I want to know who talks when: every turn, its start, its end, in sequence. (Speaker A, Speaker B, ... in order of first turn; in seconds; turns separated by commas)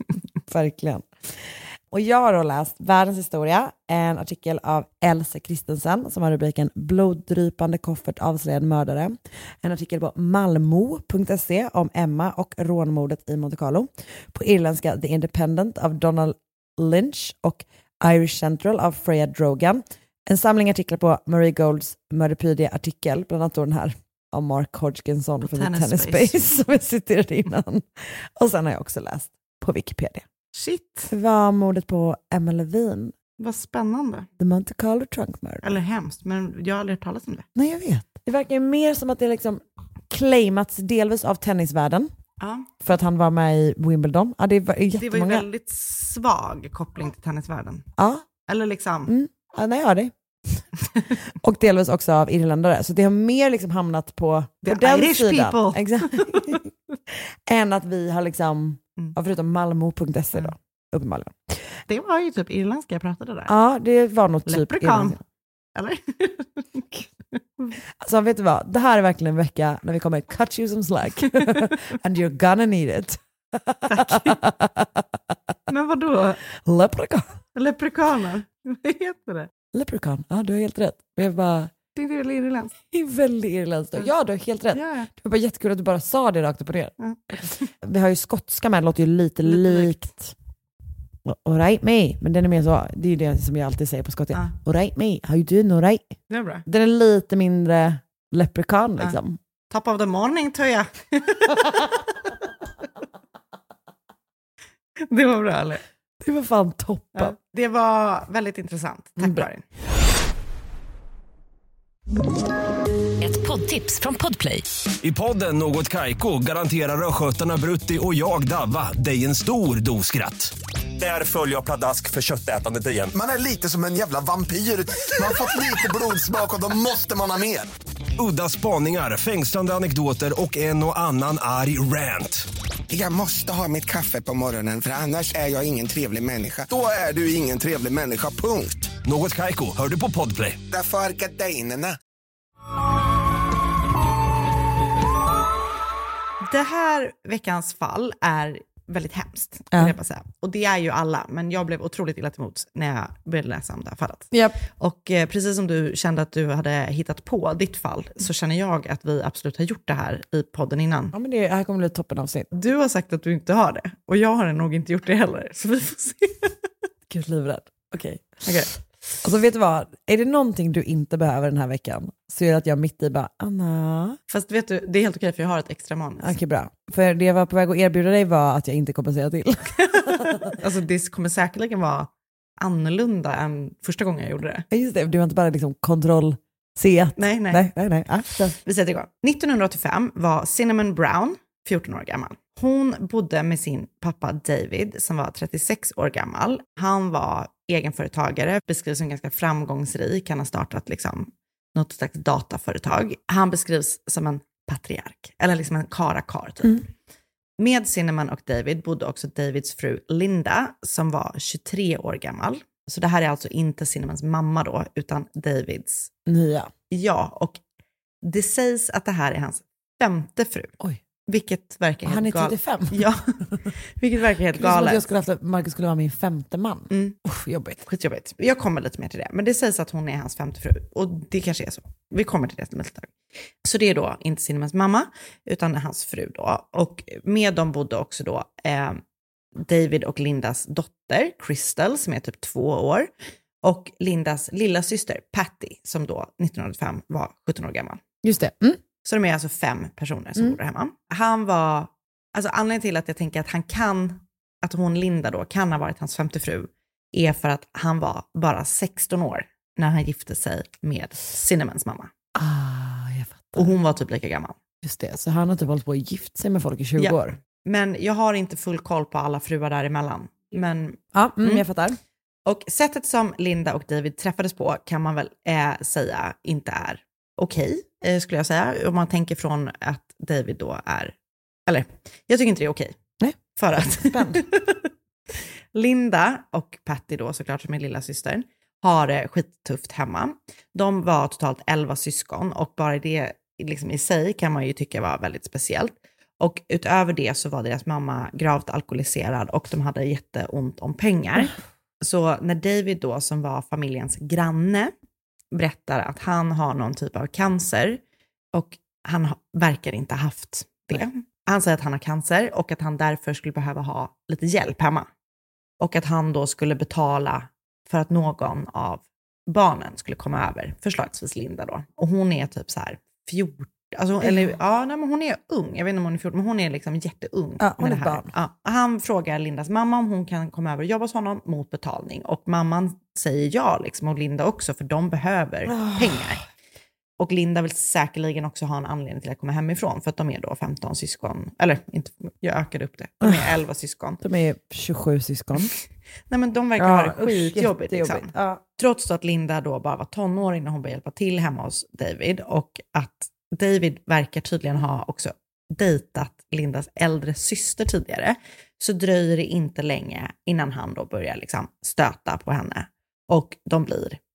Speaker A: 0.5-30.3, Speaker B: 25.4-26.4, Speaker B: 30.5-31.1, Speaker A: 31.1-33.1, Speaker B: 33.4-34.3, Speaker A: 34.4-35.8, Speaker B: 35.6-37.5, Speaker A: 37.5-42.1, Speaker B: 42.4-42.7, Speaker A: 42.8-45.5, Speaker B: 45.0-47.9, Speaker A: 48.0-48.3, Speaker B: 48.5-49.1, Speaker A: 49.1-50.6, Speaker A: 51.4-61.8, Speaker B: 54.6-56.9, Speaker B: 61.9-63.5, Speaker A: 63.5-65.2, Speaker B: 64.5-65.2, Speaker B: 65.8-67.8, Speaker A: 68.0-75.1, Speaker B: 71.4-71.7, Speaker B: 73.9-74.4, Speaker B: 75.7-76.4, Speaker A: 76.6-77.4, Speaker B: 77.5-79.5, Speaker A: 79.7-81.7, Speaker B: 82.0-82.8, Speaker A: 82.9-90.3, Speaker B: 84.7-85.1, Speaker B: 87.0-87.7, Speaker B: 89.5-90.0, Speaker A: 91.2-96.2, Speaker B: 96.3-96.7, Speaker A: 96.7-99.4, Speaker B: 99.7-102.3, Speaker B: 105.1-105.8, Speaker A: 106.2-107.3, Speaker B: 107.2-109.7, Speaker A: 109.2-109.5, Speaker B: 113.2-114.7, Speaker C: 115.0-123.1, Speaker D: 123.2-127.7, Speaker C: 128.2-132.4, Speaker D: 132.9-138.9, Speaker C: 139.1-140.6, Speaker D: 140.7-142.0, Speaker B: 146.4-161.2, Speaker A: 154.3-154.6, Speaker A: 161.1-162.5, Speaker B: 162.5-166.6, Speaker A: 167.1-168.5, Speaker B: 168.4-168.7, Speaker A: 169.2-174.2, Speaker B: 174.3-176.3, Speaker A: 176.2-180.6, Speaker B: 179.8-184.7, Speaker A: 184.7-188.6, Speaker B: 187.2-187.6, Speaker B: 188.6-206.9, Speaker B: 207.6-216.1, Speaker A: 216.3-216.7, Speaker B: 216.9-217.6, Speaker B: 218.2-220.8, Speaker B: 221.3-225.0, Speaker A: 222.1-223.1, Speaker A: 224.6-227.8, Speaker B: 226.9-227.2, Speaker B: 227.8-239.0, Speaker B: 239.6-243.1, Speaker B: 243.6-248.0, Speaker A: 248.2-248.8, Speaker B: 249.1-262.1, Speaker A: 262.4-263.7, Speaker B: 263.6-264.6, Speaker A: 264.8-267.4, Speaker B: 267.0-271.6, Speaker A: 271.1-272.0, Speaker B: 272.5-281.1, Speaker B: 281.7-283.0, Speaker A: 283.2-284.4, Speaker B: 283.6-284.9, Speaker B: 285.7-304.9, Speaker B: 305.5-308.0, Speaker B: 308.5-315.1, Speaker B: 315.8-336.4, Speaker A: 324.2-324.5, Speaker A: 327.6-328.3, Speaker A: 335.7-336.4, Speaker B: 337.2-344.2, Speaker A: 344.2-345.7, Speaker B: 346.3-364.2, Speaker A: 346.8-348.6